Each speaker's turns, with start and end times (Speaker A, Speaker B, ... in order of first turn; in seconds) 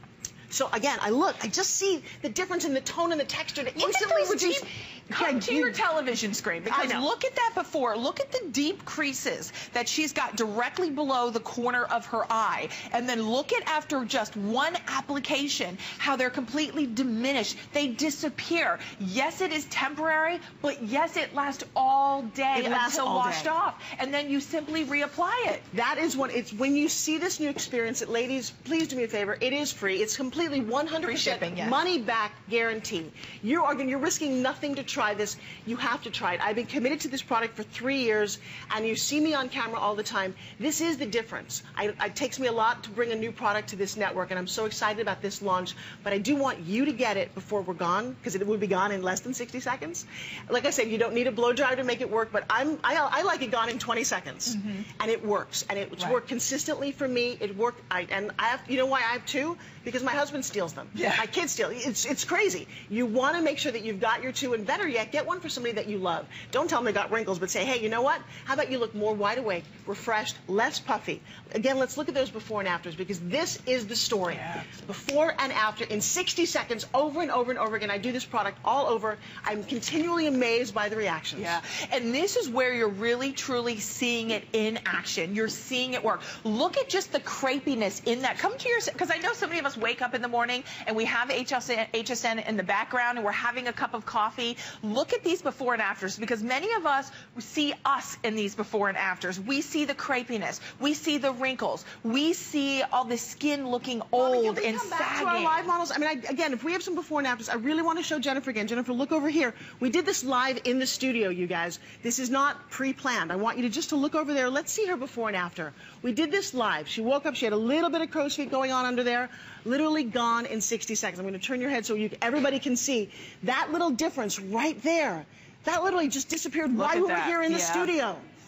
Speaker A: 0.5-5.8, 6.7-7.1, 22.5-23.5, 25.7-81.6, 104.2-128.2
Speaker B: 3.7-25.6, 31.0-31.8, 54.5-54.8, 60.9-61.2, 74.3-74.7, 81.4-105.7, 126.7-127.9